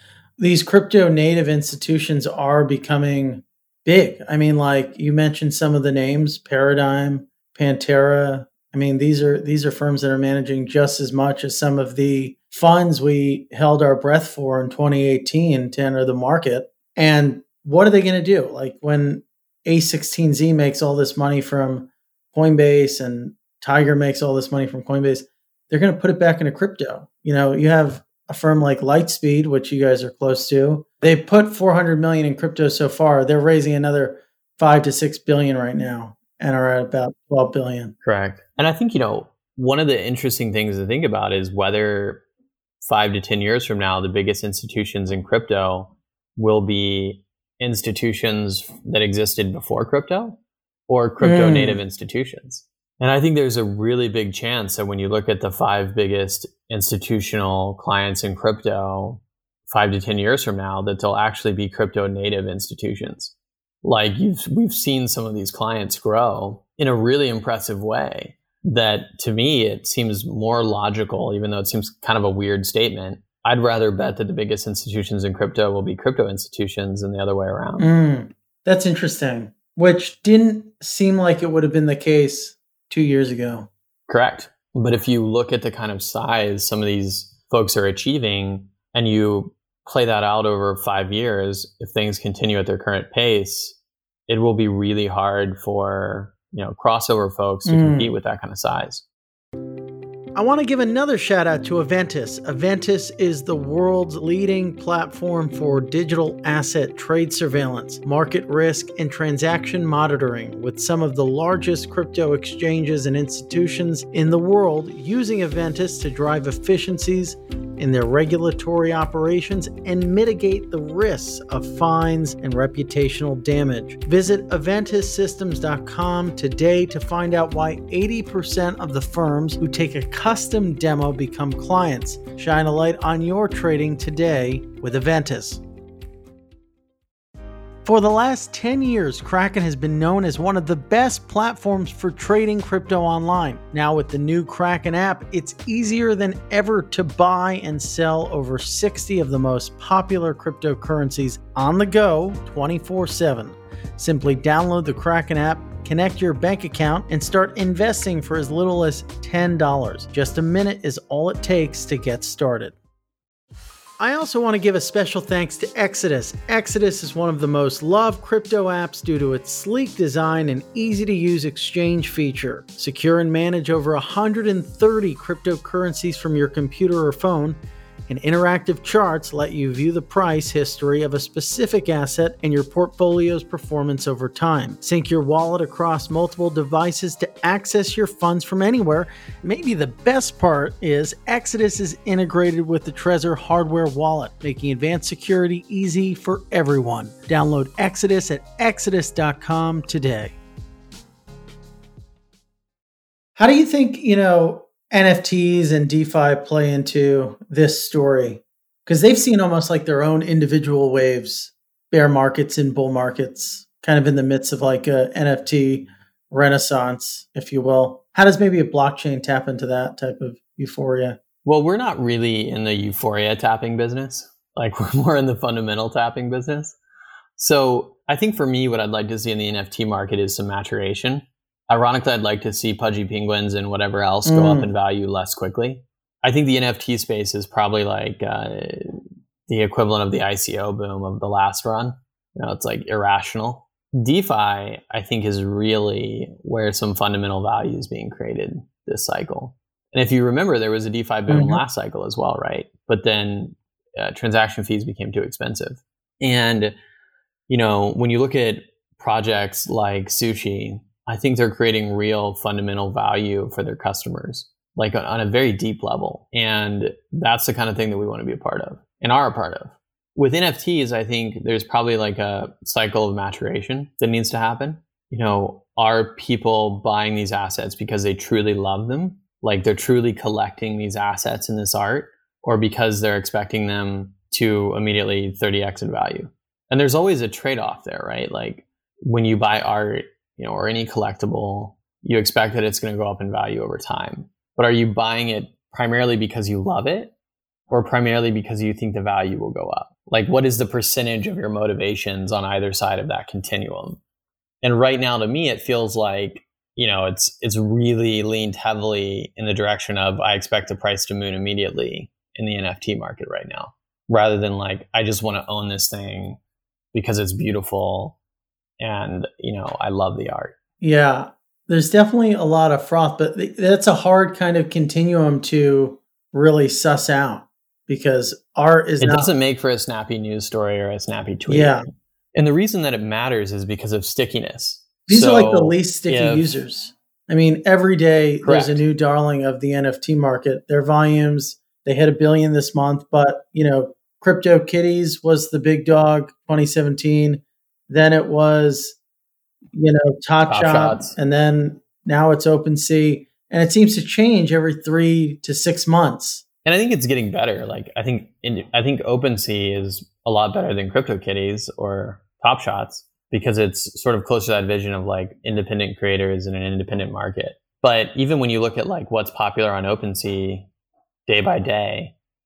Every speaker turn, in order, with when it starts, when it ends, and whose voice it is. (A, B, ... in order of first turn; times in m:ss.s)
0:00.4-0:37.9 A
0:38.0-0:42.2 B
0:42.8-1:17.9 B
0:51.2-0:51.8 A
1:17.8-1:23.7 A
1:24.1-1:33.8 B
1:34.3-1:39.0 B
1:37.6-1:38.1 A
1:40.4-2:15.6 A
2:17.8-2:42.8 A
2:44.0-3:20.4 A
3:23.4-3:41.2 A
3:41.4-3:46.8 B
3:47.4-4:16.8 B
3:54.2-3:54.7 A
4:11.3-4:11.6 A
4:17.5-4:57.1 B
4:57.7-5:04.0 B
5:04.6-5:16.4 B
5:16.9-5:18.2 B
5:18.8-5:20.6 B
5:20.8-5:29.3 A
5:29.0-5:31.8 B
5:31.5-5:31.9 A
5:32.3-5:36.6 B
5:35.1-5:49.0 A
5:38.4-5:38.8 B
5:49.7-5:56.4 A
5:50.5-5:51.2 B
5:56.6-6:10.7 B
6:11.3-6:12.1 B